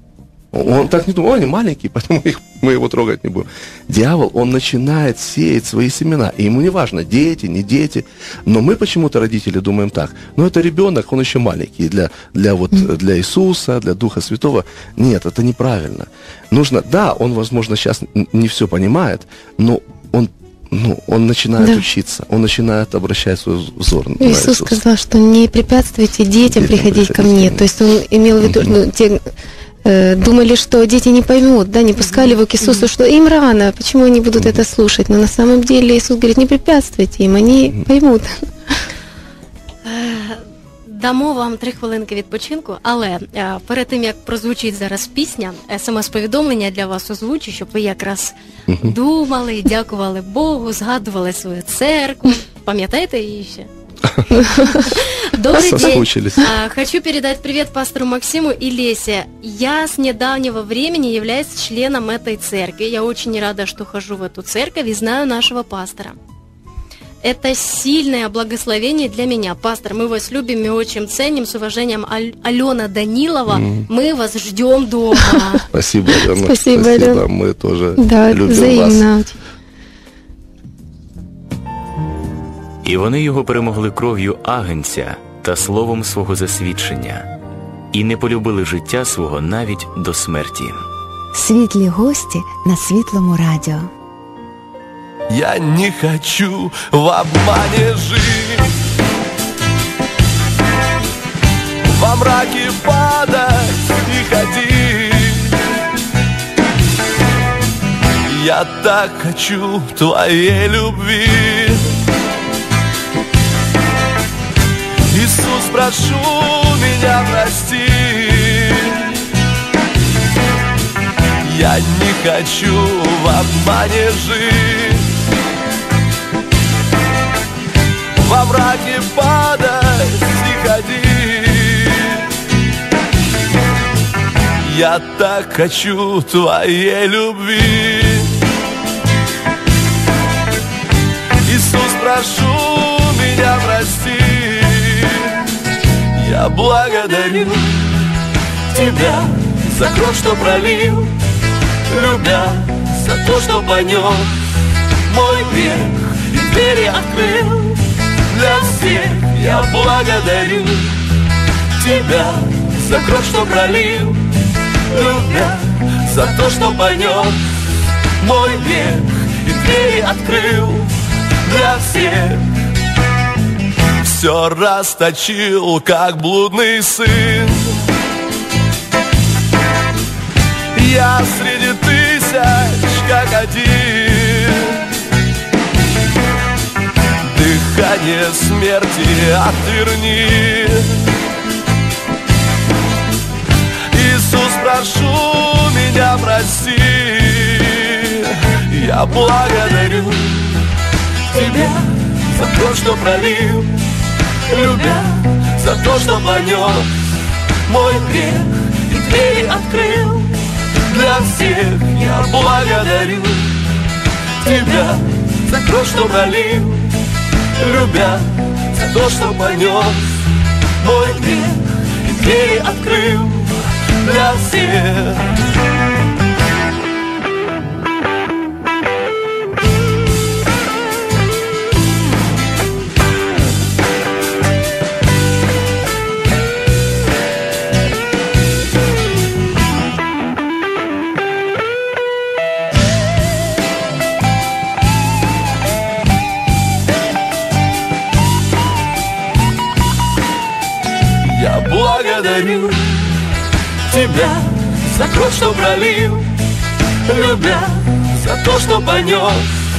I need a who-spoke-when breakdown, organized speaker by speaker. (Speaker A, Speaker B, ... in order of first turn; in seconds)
Speaker A: 0.5-24.8, 26.5-27.6, 28.4-28.8, 48.7-48.9, 54.0-54.5, 55.5-56.5, 73.5-73.9, 75.7-79.1
Speaker B: 24.2-29.2, 29.8-38.8, 54.4-54.8, 76.3-77.2, 78.0-79.4
Speaker C: 32.0-32.9, 39.8-53.7, 54.7-66.2, 67.2-75.6
Speaker D: 82.8-87.2, 87.9-90.8
Speaker E: 91.3-93.9
Speaker F: 95.3-98.7, 101.9-105.5, 108.2-111.9, 115.1-119.1, 121.4-125.1, 128.2-132.3, 134.6-138.4, 141.4-145.4, 146.1-148.0, 148.7-151.1, 151.9-154.3, 155.1-161.0, 161.8-164.3, 164.9-167.3, 168.2-170.9, 171.4-172.4, 174.0-177.8, 180.7-184.8, 187.2-191.0, 193.9-200.7, 201.3-203.8, 204.5-206.9, 207.7-213.6, 214.4-217.0, 217.6-220.1, 220.8-225.2, 251.2-253.2, 253.9-256.4, 257.0-259.5